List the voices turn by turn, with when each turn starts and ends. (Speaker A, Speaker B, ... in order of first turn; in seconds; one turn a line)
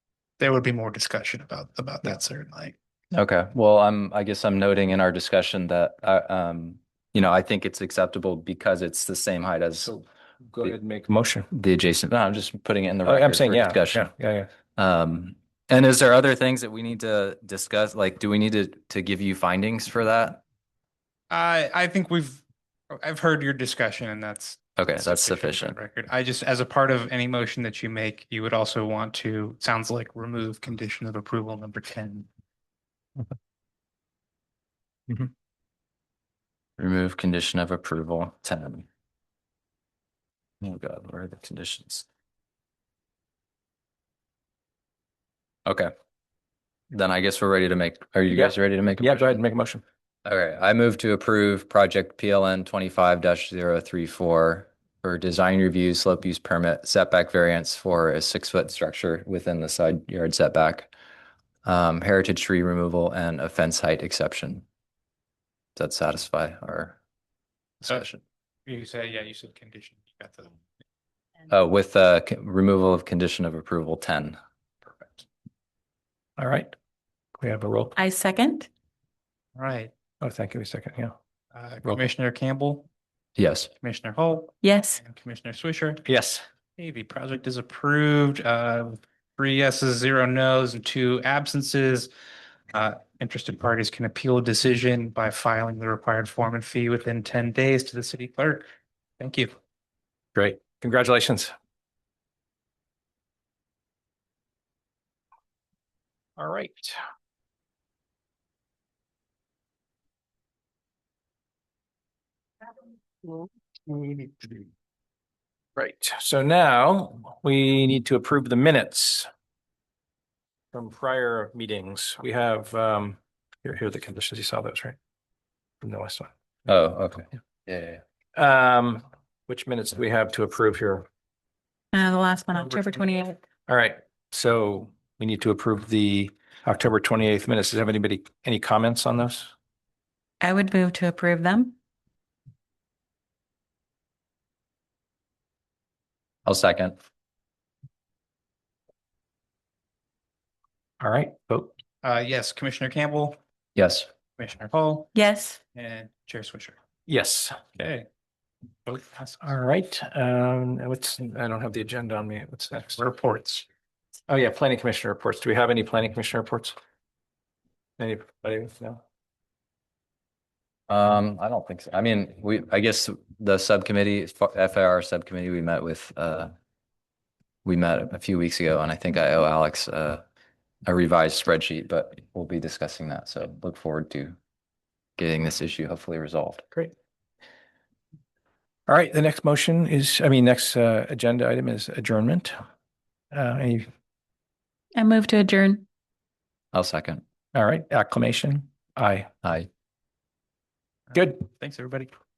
Speaker A: 0.4-2.8
Speaker B: 3.1-9.9
Speaker C: 9.8-11.5
Speaker B: 11.5-14.1
Speaker C: 13.1-14.5
Speaker B: 14.8-20.4
Speaker A: 21.3-32.3
Speaker B: 24.8-25.8
Speaker B: 36.8-38.9
Speaker B: 40.6-42.0
Speaker B: 45.7-45.9
Speaker B: 46.9-49.4
Speaker C: 48.3-49.8
Speaker B: 50.2-60.9
Speaker B: 61.6-64.7
Speaker B: 65.8-67.0
Speaker B: 67.8-68.2
Speaker A: 68.7-70.6
Speaker B: 71.5-74.4
Speaker C: 76.4-76.7
Speaker C: 77.4-77.9
Speaker D: 78.0-78.7
Speaker A: 79.6-79.9
Speaker C: 80.2-81.2
Speaker A: 81.5-82.9
Speaker B: 83.4-83.7
Speaker A: 83.8-86.0
Speaker D: 84.6-85.0
Speaker C: 86.1-86.4
Speaker A: 86.8-92.1
Speaker A: 92.7-98.7
Speaker A: 99.2-99.5
Speaker C: 100.3-101.5
Speaker C: 106.4-107.0
Speaker C: 113.9-114.5
Speaker C: 115.8-119.3
Speaker C: 120.7-125.0
Speaker C: 125.8-126.3
Speaker B: 126.7-128.0
Speaker C: 128.3-131.1
Speaker D: 131.9-133.4
Speaker C: 133.7-139.5
Speaker D: 140.4-141.7
Speaker B: 146.5-147.0
Speaker C: 151.0-151.7
Speaker A: 152.0-153.4
Speaker B: 153.8-154.1
Speaker A: 154.4-155.1
Speaker D: 155.2-155.6
Speaker A: 155.7-156.8
Speaker C: 157.1-157.6
Speaker A: 157.8-158.1
Speaker A: 158.8-159.5
Speaker C: 159.4-163.0
Speaker A: 162.9-163.7
Speaker C: 164.3-166.8
Speaker C: 168.0-169.0
Speaker B: 170.9-176.5
Speaker B: 177.6-180.2
Speaker B: 180.9-184.4
Speaker B: 185.2-186.6
Speaker C: 188.9-192.6
Speaker C: 193.3-193.9
Speaker D: 194.9-195.8
Speaker B: 196.7-197.2
Speaker C: 197.5-199.3
Speaker A: 201.1-202.1
Speaker C: 201.2-201.4